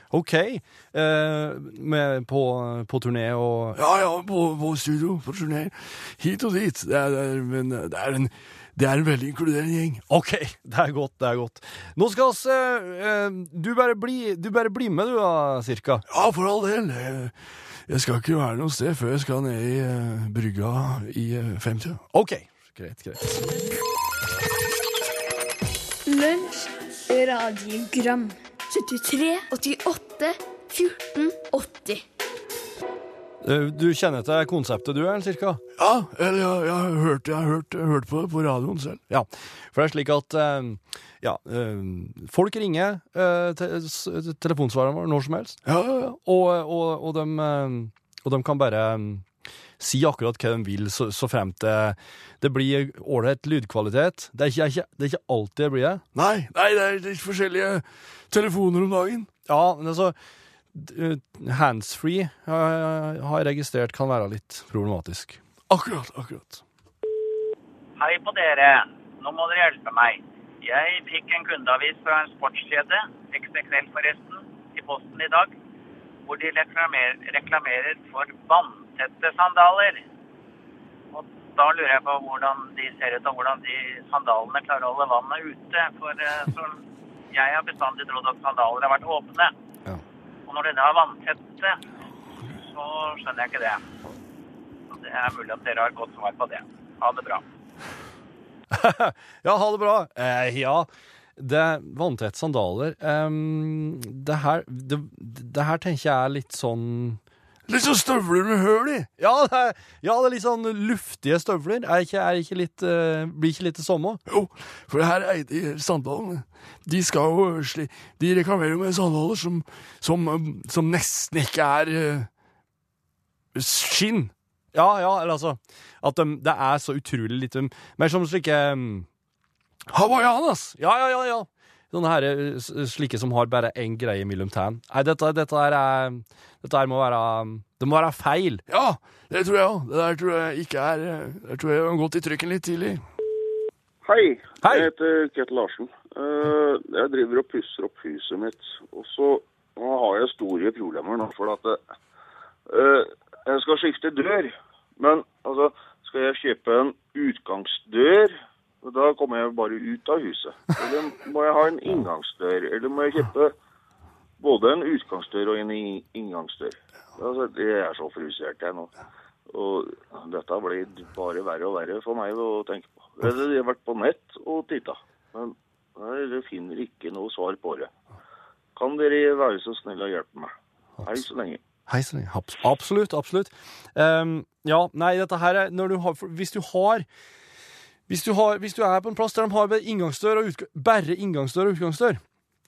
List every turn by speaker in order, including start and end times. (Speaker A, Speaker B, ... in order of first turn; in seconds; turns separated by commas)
Speaker A: 0.1-3.8, Speaker B: 3.8-10.0, Speaker A: 10.1-16.0, Speaker B: 16.1-17.3, Speaker B: 17.9-22.0, Speaker A: 22.1-23.2, Speaker C: 26.1-32.0, Speaker A: 33.4-35.6, Speaker B: 35.8-39.0, Speaker A: 39.1-45.6, Speaker B: 45.6-46.2, Speaker A: 46.2-49.2, Speaker A: 49.8-56.0, Speaker B: 56.1-59.3, Speaker A: 59.5-60.1, Speaker A: 60.7-65.4, Speaker B: 65.7-66.6, Speaker D: 68.0-75.5, Speaker D: 76.3-80.0, Speaker D: 81.1-86.8, Speaker D: 87.3-89.5, Speaker D: 90.5-91.8, Speaker D: 92.7-93.8, Speaker D: 94.9-97.4, Speaker A: 98.7-107.2, Speaker B: 107.7-109.1, Speaker A: 109.2-114.2, Speaker B: 114.3-122.3, Speaker B: 123.5-124.3, Speaker A: 124.7-129.1, Speaker B: 129.9-130.4, Speaker A: 130.4-138.6, Speaker B: 138.7-143.0, Speaker E: 144.0-151.8, Speaker A: 144.6-144.9, Speaker E: 152.7-163.5, Speaker E: 164.4-168.9, Speaker E: 169.5-177.9, Speaker E: 178.8-181.6, Speaker A: 181.9-187.1, Speaker A: 188.1-192.2